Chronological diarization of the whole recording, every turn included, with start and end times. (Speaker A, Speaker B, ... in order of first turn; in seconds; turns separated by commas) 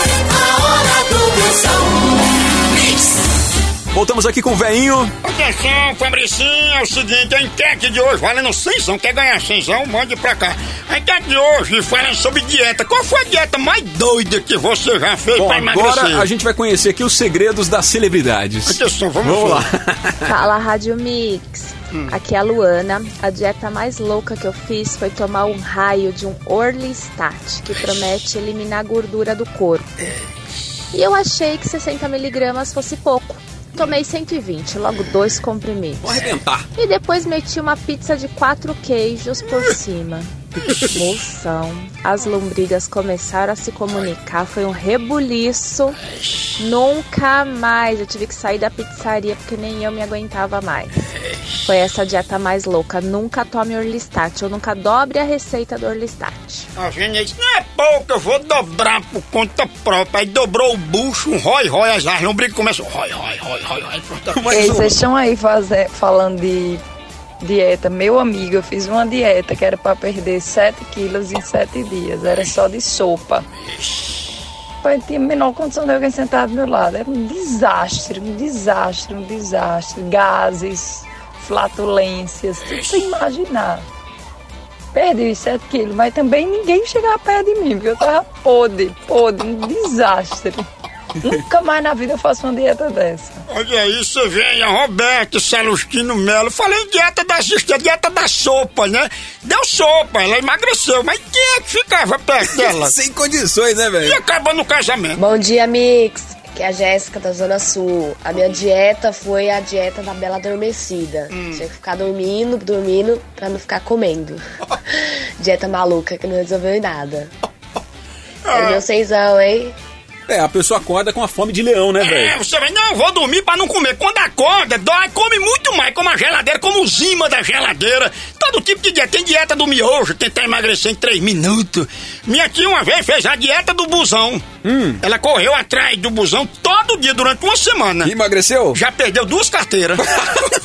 Speaker A: 3.9-5.1, Speaker B: 5.2-16.2, Speaker A: 15.4-20.2, Speaker B: 18.6-19.6, Speaker C: 20.2-29.9, Speaker C: 30.9-36.2, Speaker A: 36.0-36.6, Speaker C: 36.8-46.0, Speaker C: 46.6-50.9, Speaker C: 51.6-56.6, Speaker B: 56.8-64.3, Speaker A: 64.3-65.0, Speaker D: 64.5-66.8, Speaker D: 67.4-73.4, Speaker D: 74.8-83.8, Speaker D: 84.9-90.6, Speaker D: 91.2-93.4, Speaker B: 93.5-102.9, Speaker A: 102.4-104.2, Speaker B: 104.0-105.2, Speaker E: 105.2-114.4, Speaker B: 111.3-111.6, Speaker E: 115.4-117.3, Speaker B: 118.5-118.8, Speaker E: 118.5-119.7, Speaker A: 120.3-122.3, Speaker B: 122.0-134.4, Speaker A: 134.6-135.0, Speaker B: 135.0-138.1, Speaker A: 138.0-138.8, Speaker B: 138.7-140.0